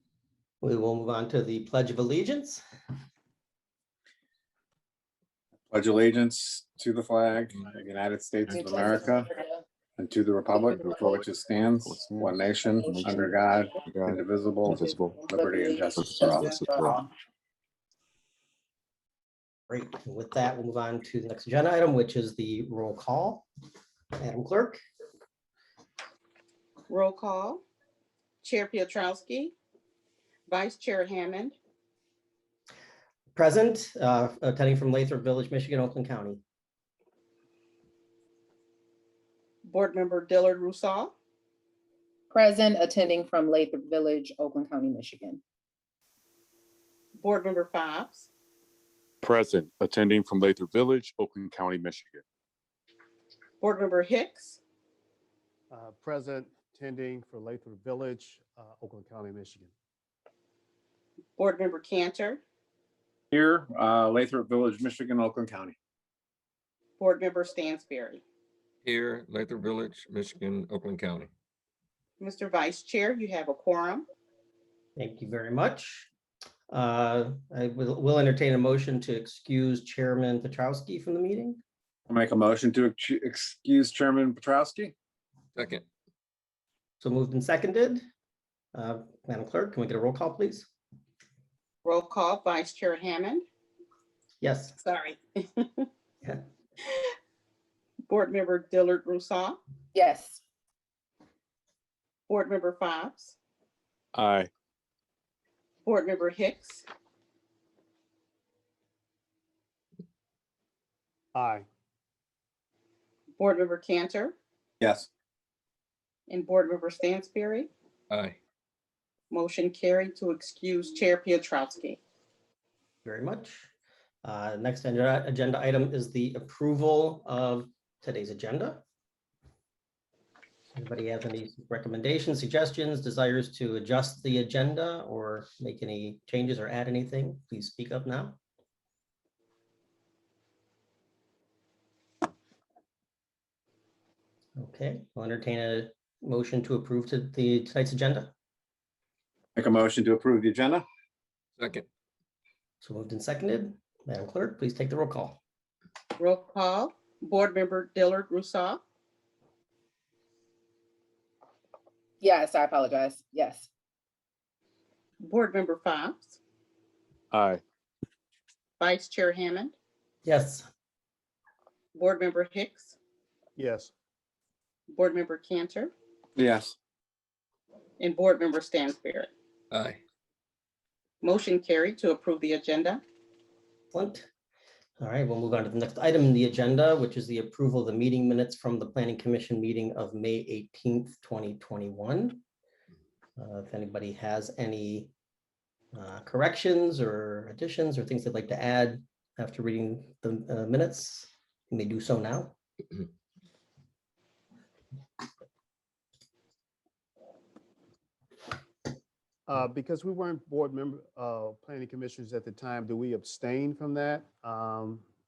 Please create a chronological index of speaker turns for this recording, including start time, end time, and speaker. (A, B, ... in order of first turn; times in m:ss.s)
0:00.6-0:02.6 A
0:05.7-0:09.3 B
0:08.5-0:09.4 C
0:10.0-0:16.4 B
0:11.8-0:15.2 D
0:15.3-0:17.1 C
0:16.0-0:17.0 D
0:19.7-0:23.5 A
0:24.2-0:24.8 A
0:26.9-0:27.6 E
0:28.4-0:29.6 E
0:30.5-0:31.6 E
0:33.4-0:36.4 A
0:39.6-0:41.1 E
0:42.3-0:45.4 C
0:47.2-0:48.3 E
0:49.2-0:52.2 D
0:53.6-0:54.6 E
0:55.7-0:59.7 F
1:01.4-1:02.4 E
1:03.3-1:05.8 B
1:07.0-1:08.2 E
1:08.8-1:11.3 G
1:12.2-1:14.1 E
1:15.0-1:16.1 A
1:16.7-1:21.6 A
1:22.1-1:24.9 B
1:25.6-1:25.8 G
1:27.0-1:28.0 A
1:28.7-1:30.7 A
1:31.8-1:33.4 E
1:34.4-1:34.8 A
1:34.8-1:35.9 E
1:38.1-1:39.6 E
1:40.0-1:40.4 C
1:42.3-1:43.4 E
1:44.2-1:44.5 D
1:45.8-1:46.8 E
1:51.4-1:51.7 F
1:53.4-1:54.4 E
1:54.8-1:55.1 B
1:56.3-1:57.7 E
1:58.1-1:58.4 G
1:59.3-2:02.0 E
2:03.0-2:03.7 A
2:04.2-2:08.8 A
2:10.7-2:18.4 A
2:24.6-2:28.3 A
2:29.6-2:30.8 B
2:31.6-2:31.9 G
2:32.8-2:35.4 A
2:36.2-2:38.8 E
2:42.2-2:43.7 C
2:45.2-2:46.4 E
2:47.3-2:47.6 D
2:48.8-2:49.7 E
2:50.2-2:50.7 A
2:52.0-2:53.0 E
2:53.6-2:53.9 F
2:54.9-2:55.9 E
2:56.4-2:56.8 B
2:58.0-2:59.3 E
2:59.7-3:00.0 G
3:01.2-3:03.0 E
3:03.9-3:04.3 A
3:05.0-3:12.4 A
3:13.4-3:15.1 A
3:15.9-3:22.5 A
3:29.5-3:35.0 F